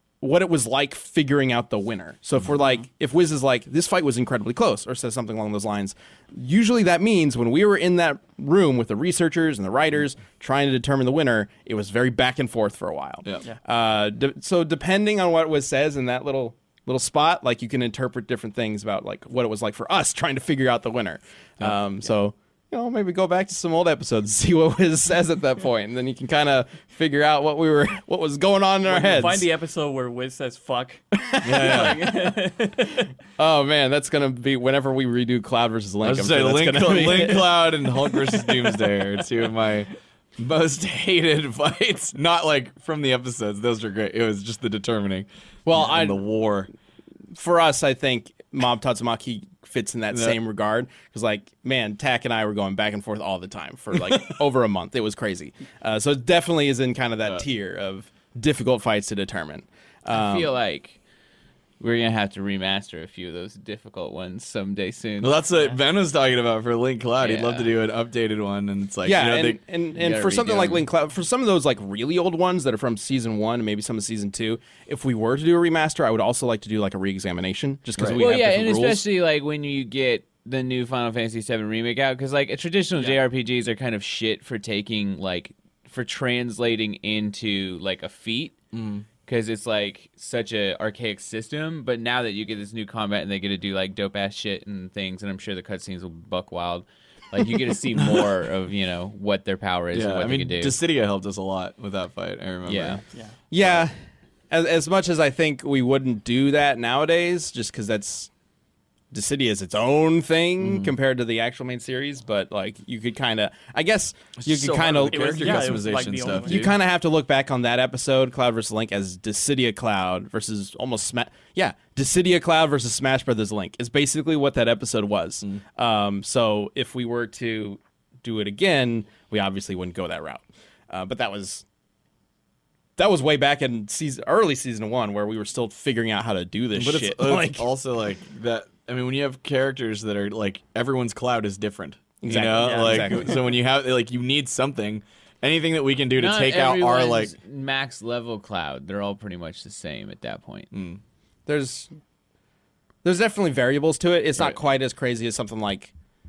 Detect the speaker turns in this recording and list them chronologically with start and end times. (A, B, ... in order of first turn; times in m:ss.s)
0:00.2-0:29.5 A
0:28.8-0:33.0 B
0:31.1-0:32.1 A
0:31.4-0:32.1 C
0:33.4-0:37.8 A
0:36.0-0:46.7 C
0:45.6-0:46.2 A
0:47.3-1:00.5 A
0:50.1-0:50.4 C
1:00.1-1:01.0 D
1:01.8-1:05.4 D
1:05.2-1:09.6 C
1:07.2-1:07.7 D
1:09.0-1:19.0 A
1:09.9-1:10.8 D
1:18.0-1:18.2 C
1:18.2-1:28.6 D
1:28.7-1:29.0 C
1:29.2-1:40.8 D
1:37.9-1:38.3 C
1:39.9-1:43.0 C
1:42.6-1:43.0 D
1:43.5-1:43.9 A
1:44.5-1:48.3 A
1:49.1-1:55.8 A
1:50.6-1:50.9 C
1:54.4-1:56.7 C
1:55.1-1:56.7 B
1:56.4-2:11.6 A
2:13.0-2:17.7 A
2:16.8-2:27.3 C
2:22.2-2:23.4 A
2:22.6-2:23.2 B
2:26.1-2:30.7 D
2:30.7-2:31.0 C
2:31.5-2:31.9 A
2:33.0-2:35.9 A